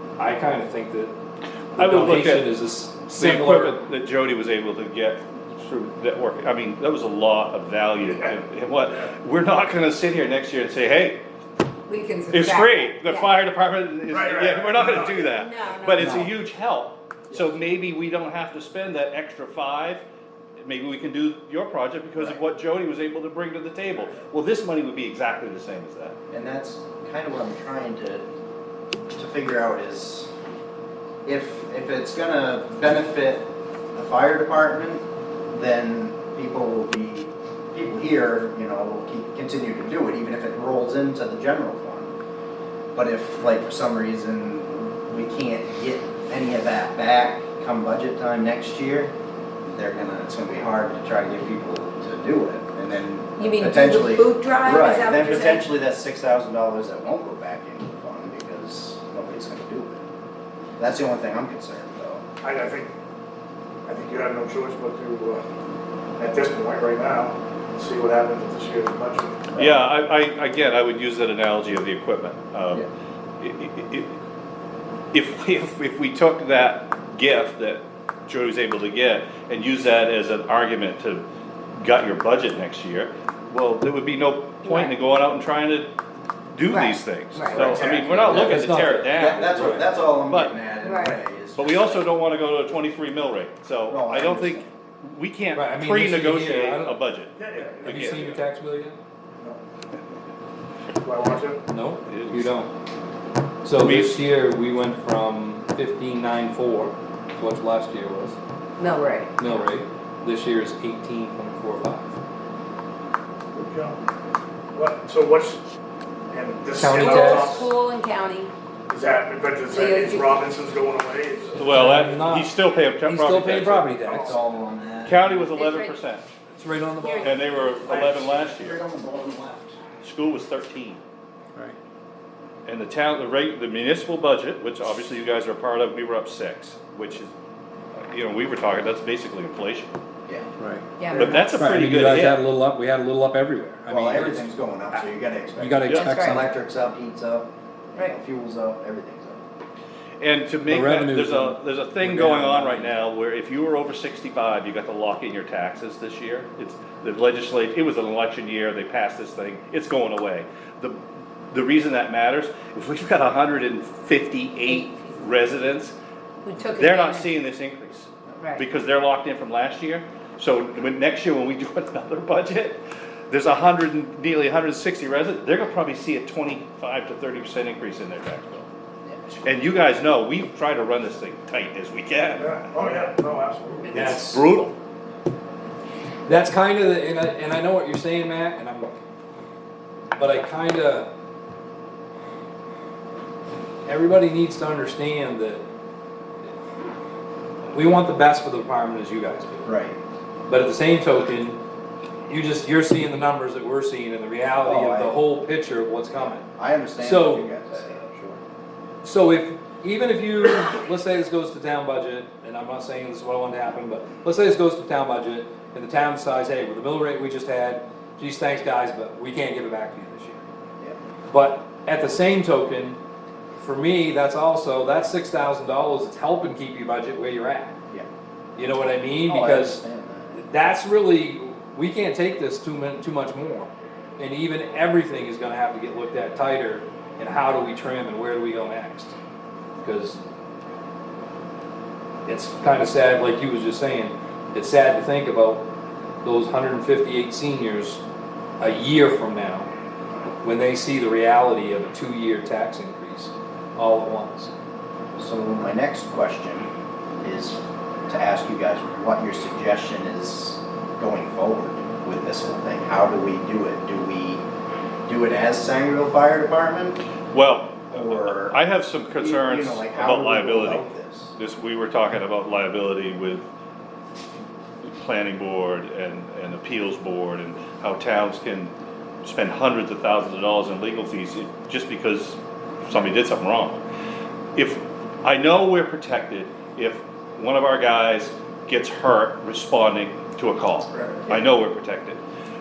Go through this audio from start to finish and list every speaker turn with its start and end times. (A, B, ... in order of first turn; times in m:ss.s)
0:00.2-0:01.1 A
0:01.7-0:03.8 A
0:01.8-0:02.6 B
0:03.1-0:11.2 B
0:11.9-0:13.4 C
0:12.3-0:20.0 B
0:14.1-0:15.3 D
0:15.0-0:16.3 C
0:20.6-0:26.2 B
0:22.1-0:22.4 E
0:26.3-0:28.2 E
0:29.1-0:30.3 E
0:31.2-0:42.1 E
0:42.9-0:49.1 E
0:49.7-1:00.0 E
0:53.4-0:55.7 C
1:00.8-1:02.2 E
1:02.4-1:02.9 D
1:03.8-1:05.4 D
1:06.2-1:09.5 D
1:09.5-1:09.8 E
1:09.6-1:12.9 B
1:13.4-1:14.1 B
1:15.1-1:21.2 B
1:21.8-1:25.9 B
1:24.6-1:25.0 C
1:26.5-1:30.6 B
1:26.7-1:27.9 C
1:27.5-1:28.6 E
1:28.0-1:29.8 A
1:29.1-1:32.1 E
1:30.8-1:31.2 C
1:31.5-1:38.3 B
1:33.9-1:34.7 E
1:35.5-1:37.0 A
1:37.4-1:38.4 D
1:37.8-1:39.0 A
1:41.0-1:41.6 D
1:41.7-1:42.7 A
1:42.1-1:42.5 B
1:43.6-1:48.4 A
1:43.8-1:44.2 B
1:48.8-1:49.3 C
1:49.4-1:52.1 A
1:53.5-1:54.0 D
1:54.7-1:55.6 D
1:56.3-1:57.7 D
1:56.7-1:57.6 A
1:56.9-1:58.5 C
1:58.9-2:01.8 D
1:59.7-2:00.4 C
2:01.6-2:04.0 B
2:01.6-2:02.5 A
2:03.0-2:04.4 A
2:04.0-2:05.5 E
2:05.0-2:06.2 B
2:05.4-2:06.0 C
2:06.5-2:07.4 A
2:07.0-2:07.4 C
2:07.2-2:08.8 B
2:07.8-2:09.8 E
2:10.0-2:11.0 B
2:12.6-2:17.3 B
2:18.0-2:19.9 B
2:20.6-2:25.0 A
2:21.0-2:21.6 C
2:21.1-2:22.4 B
2:23.9-2:29.4 E
2:25.6-2:26.5 A
2:26.0-2:26.4 C
2:30.2-2:41.0 B
2:30.7-2:32.9 A
2:41.5-2:45.9 B
2:44.7-2:45.2 C
2:46.4-2:47.4 C
2:46.6-2:58.7 B
2:59.0-2:59.4 E
2:59.4-3:02.8 B
3:02.4-3:04.0 D
3:03.9-3:04.7 B
3:03.9-3:04.4 A
3:06.2-3:09.0 A
3:10.2-3:11.1 A
3:13.8-3:15.6 A
3:17.6-3:19.7 A
3:19.6-3:20.0 E
3:20.5-3:21.6 A
3:22.3-3:26.4 A
3:24.6-3:25.2 E
3:26.2-3:28.4 E
3:27.0-3:27.5 A
3:29.0-3:40.4 A
3:41.3-3:43.0 A
3:43.6-3:47.8 A
3:48.6-3:49.8 A
3:49.3-3:50.4 E
3:50.4-3:59.1 A
3:59.8-4:00.2 A
4:02.2-4:05.6 A
4:06.2-4:08.0 A
4:08.6-4:09.7 A
4:10.4-4:14.5 A
4:15.2-4:16.7 E
4:17.2-4:24.4 E
4:25.1-4:27.0 E
4:27.3-4:30.8 B
4:27.9-4:31.3 E
4:31.4-4:33.4 B
4:34.8-4:38.7 B
4:39.2-4:43.8 B
4:44.5-4:52.2 B
4:51.0-4:51.2 D